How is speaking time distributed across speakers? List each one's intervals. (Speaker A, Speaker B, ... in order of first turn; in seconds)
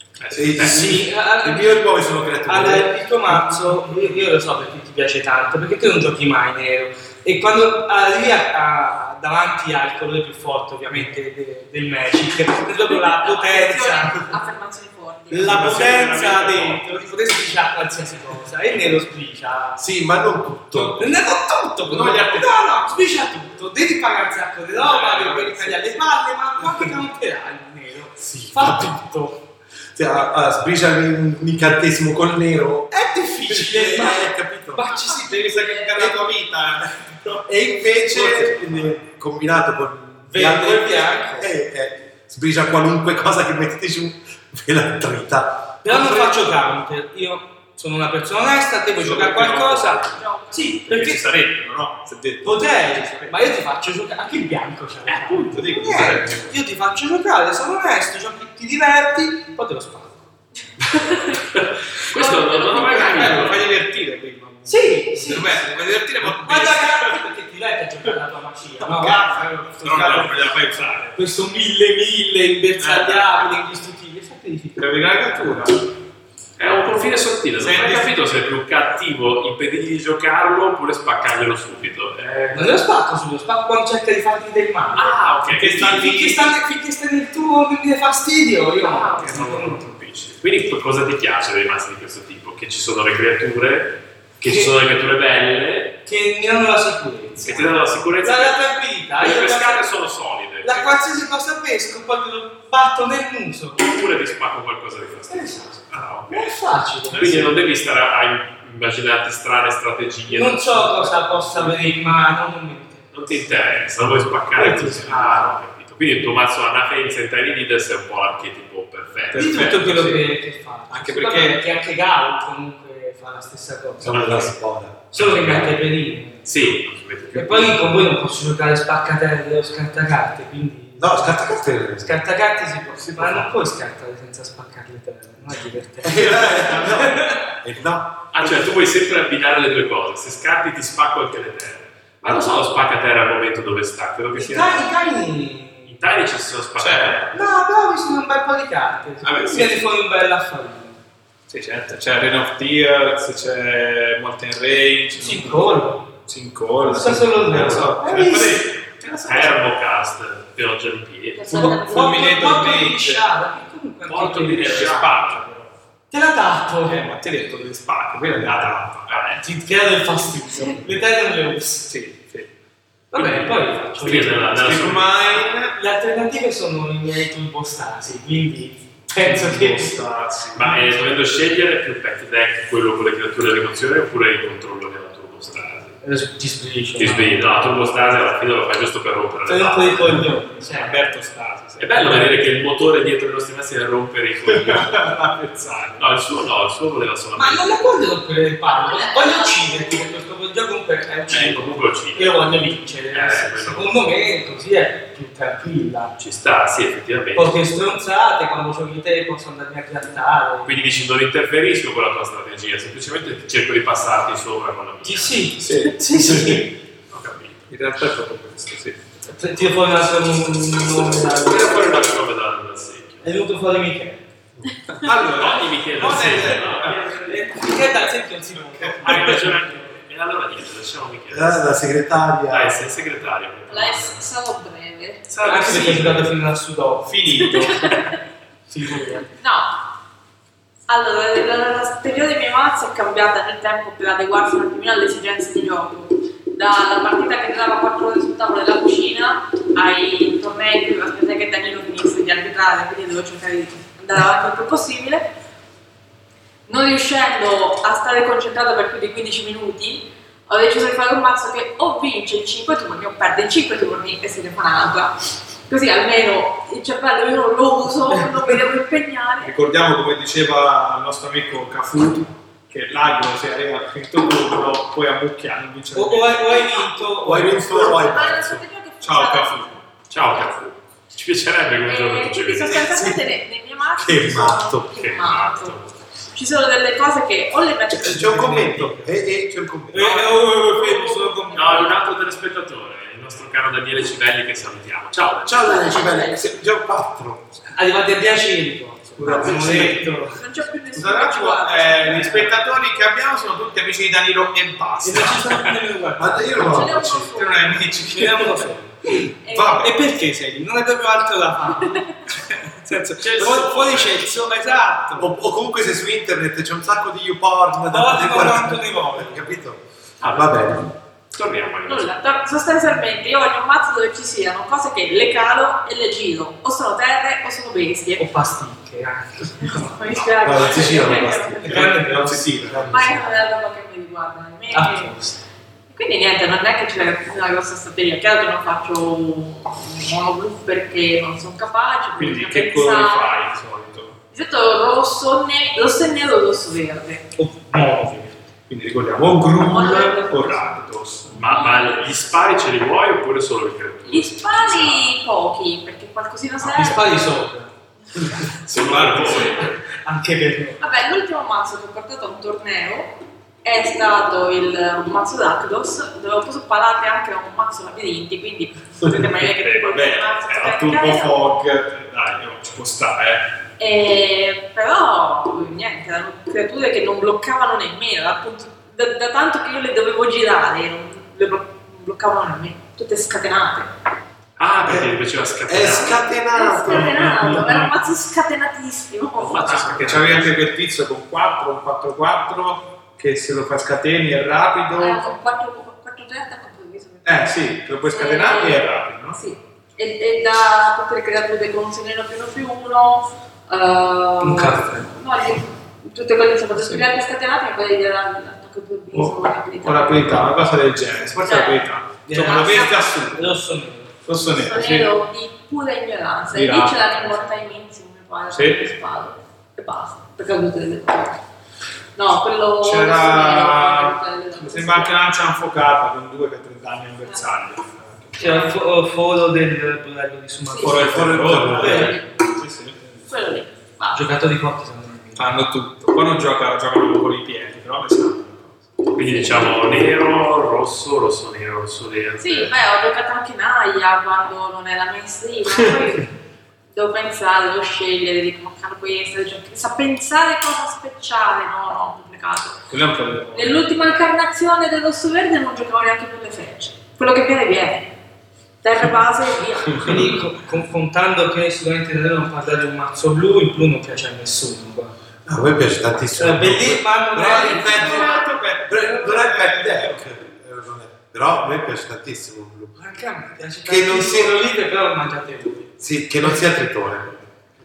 Speaker A: 0.2-0.8, 15.3-17.4, 21.9-22.9, 24.8-27.1, 35.0-39.0, 45.9-46.5, 49.0-50.2, 50.8-53.6, 55.1-56.5, 62.7-67.2, 68.8-71.2, 72.8-73.6, 74.8-75.9, 77.6-78.1, 85.5-86.4, 119.3-120.3, 120.9-121.7, 146.8-147.2, 149.2-149.8, 151.5-159.6, 161.5-163.3, 164.3-165.7, 166.8-169.4, 171.9-172.5, 174.5-175.8, 179.2-181.0, 190.1-192.3, 194.5-196.1, 215.6-216.7, 217.7-219.0, 224.9-227.1, 228.8-229.3, 237.2-237.6, 269.4-276.5, 279.0-279.8, 299.2-300.2, 300.9-305.7, 307.3-308.7, 309.5-309.9, 312.3-313.7, 331.6-333.0, 342.2-344.2, 348.7-351.4, 358.6-359.7, 369.1-373.5, 387.0-387.9, 389.7-395.3, 397.2-399.4, 409.1-413.5, 414.2-415.1, 416.5-417.5, 418.5-419.0, 422.8-428.7, 430.8-433.2, 435.4-438.8, 452.9-453.9, 467.4-470.3
Speaker B: 0.3-2.9, 19.8-21.1, 28.2-29.1, 29.9-34.9, 37.4-45.9, 124.0-125.0, 131.0-132.2, 133.0-133.5, 136.0-138.3, 231.3-232.9, 277.2-278.6, 282.9-283.2, 284.0-284.9, 287.9-290.4, 295.4-297.4, 299.2-300.0, 306.2-307.4, 315.2-320.9, 330.4-333.3, 384.9-385.1, 385.7-387.8, 430.9-432.2, 465.5-472.9, 473.9-474.6, 476.0-477.6
Speaker C: 0.6-1.9, 2.5-14.3, 15.3-19.8, 20.7-29.4, 32.9-35.7, 40.3-41.5, 45.8-51.2, 52.4-60.2, 64.7-65.7, 66.2-70.4, 71.2-74.8, 82.5-89.9, 94.4-94.8, 96.1-99.9, 100.6-103.8, 105.3-105.8, 106.3-107.6, 110.3-113.5, 114.6-115.6, 119.3-124.2, 125.1-126.8, 127.3-137.6, 144.3-146.0, 147.3-151.0, 155.2-156.1, 156.8-158.7, 161.5-165.1, 166.1-167.1, 169.4-171.9, 173.1-174.6, 175.7-180.0, 186.0-187.5, 189.5-190.9, 197.3-206.1, 207.3-210.8, 215.0-216.8, 219.3-222.1, 223.2-224.2, 227.0-229.9, 235.4-237.9, 238.7-239.3, 275.9-278.0, 288.0-289.1, 289.9-292.0, 297.7-300.4, 302.1-302.5, 305.0-306.9, 308.1-312.0, 313.4-315.3, 317.9-319.5, 328.2-329.9, 331.6-332.6, 334.7-335.4, 347.4-348.4, 356.6-357.7, 359.9-360.8, 404.4-405.2, 412.3-414.2, 428.4-432.2, 434.1-435.5, 460.0-465.1, 466.4-468.3, 473.0-475.9
Speaker D: 12.8-15.9, 34.9-36.2, 50.1-50.8, 60.8-61.4, 62.1-63.5, 88.8-89.4, 161.3-162.4, 170.5-170.8, 198.7-199.8, 233.7-235.3, 237.4-238.2, 239.4-239.8, 240.9-255.3, 256.7-269.5, 276.5-277.0, 277.7-279.8, 281.9-288.4, 291.5-291.9, 295.6-296.6, 300.3-302.5, 306.6-307.9, 309.4-309.9, 311.9-312.2, 321.9-328.2, 329.6-331.8, 332.9-335.2, 335.9-343.4, 344.3-347.2, 349.6-350.6, 351.3-352.3, 354.1-357.3, 360.8-371.5, 373.8-383.9, 386.4-389.9, 395.0-410.4, 411.4-413.2, 414.6-421.4, 422.2-425.3, 430.7-431.0, 433.3-434.3, 439.3-439.7, 442.4-446.3, 446.9-452.8, 453.5-458.1, 458.8-460.2
Speaker E: 61.4-63.7, 76.6-82.8, 85.0-86.0, 89.2-96.0, 97.4-100.9, 103.8-106.5, 107.1-111.9, 113.1-119.5, 124.1-124.5, 125.1-125.8, 126.5-127.9, 138.3-144.9, 145.9-147.5, 159.3-161.7, 164.1-165.4, 169.1-169.4, 173.2-175.1, 180.5-186.0, 187.0-190.2, 191.8-195.0, 196.0-197.9, 201.3-202.5, 203.1-204.1, 206.2-207.6, 210.7-215.5, 217.1-217.7, 221.4-223.3, 225.2-227.3, 229.0-231.9, 232.5-234.3, 235.3-236.3, 280.1-283.0, 284.9-286.0, 291.5-295.7, 313.2-314.3, 320.2-322.4, 330.1-330.6, 351.3-355.1, 358.6-359.8, 384.6-386.2, 389.4-390.6, 439.1-442.8